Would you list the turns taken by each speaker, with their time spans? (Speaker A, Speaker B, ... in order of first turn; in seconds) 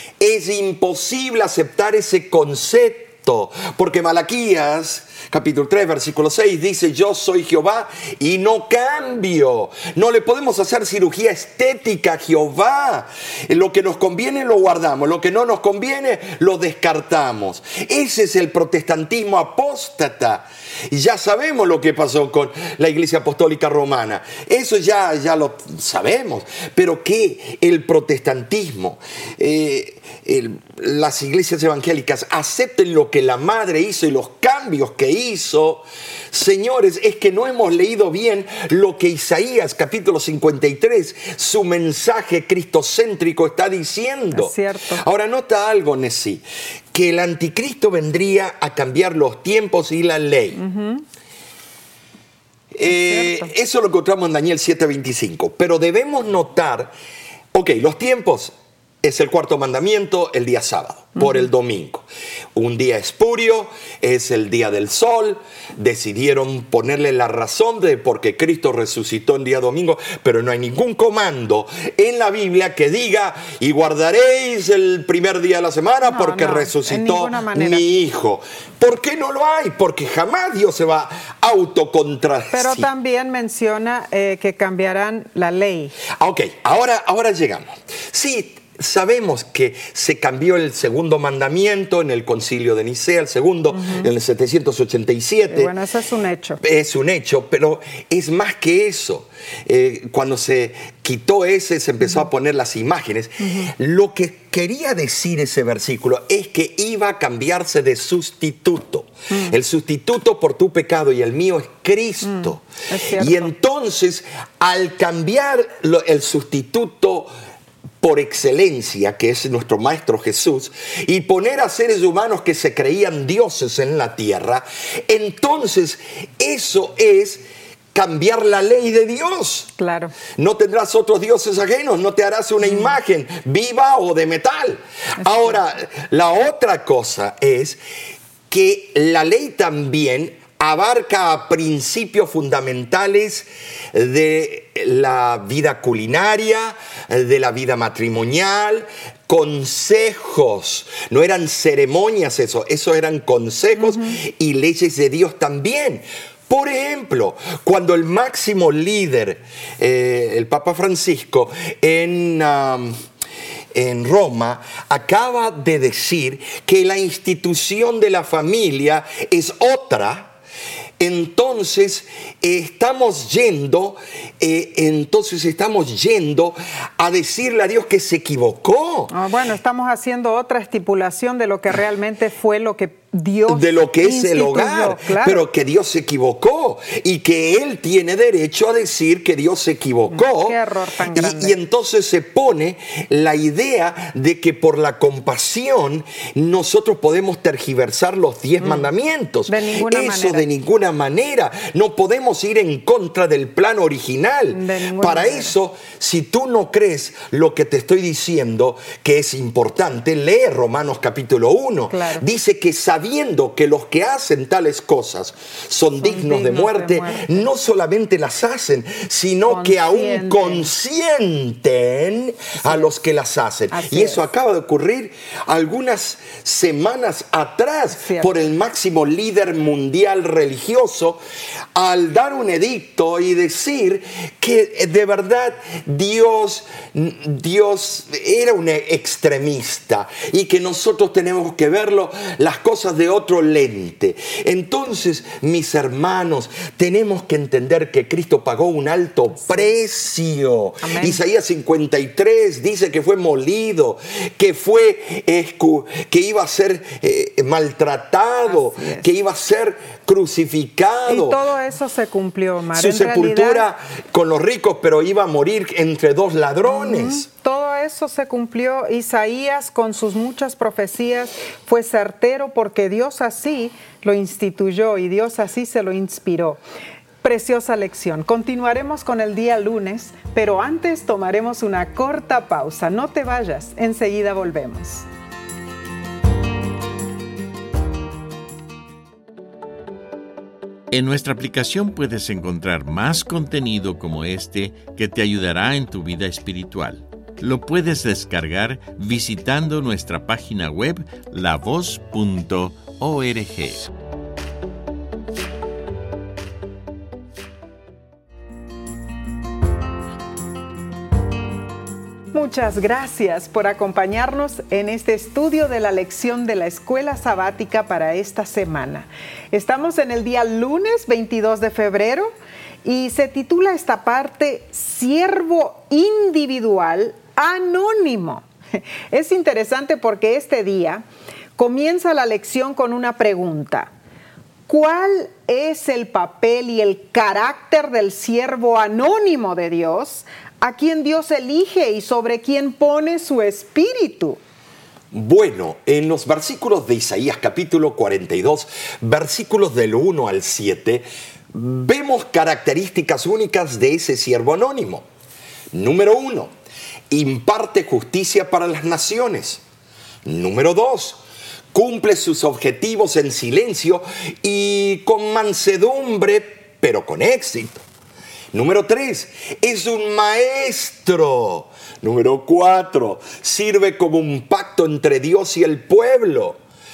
Speaker A: 0.2-50.6, 52.7-56.9, 57.5-82.9, 86.1-95.7, 96.6-117.3, 118.0-127.4, 127.9-129.7, 130.3-137.8, 138.5-162.9, 163.7-170.3, 171.0-179.1, 183.5-190.6, 191.1-231.2, 231.8-261.4, 262.7-267.3, 345.1-355.1, 355.7-356.5, 357.1-359.6, 360.2-361.2, 361.7-367.8, 368.5-376.6
Speaker B: 44.3-45.0, 50.5-51.0, 52.9-53.5, 76.0-77.9, 82.5-86.0, 93.7-94.1, 95.5-96.6, 103.4-103.7, 112.3-113.5, 129.8-130.2, 135.2-135.5, 179.1-185.5, 190.1-191.6, 199.5-200.5, 204.5-205.5, 211.9-212.2, 216.0-217.5, 219.5-220.7, 223.7-224.2, 227.9-228.3, 250.8-251.2, 258.5-259.1, 261.1-263.7, 266.7-276.6, 277.2-285.1, 312.3-322.3, 322.8-331.0, 331.6-333.9, 334.7-344.4
Speaker C: 290.9-303.9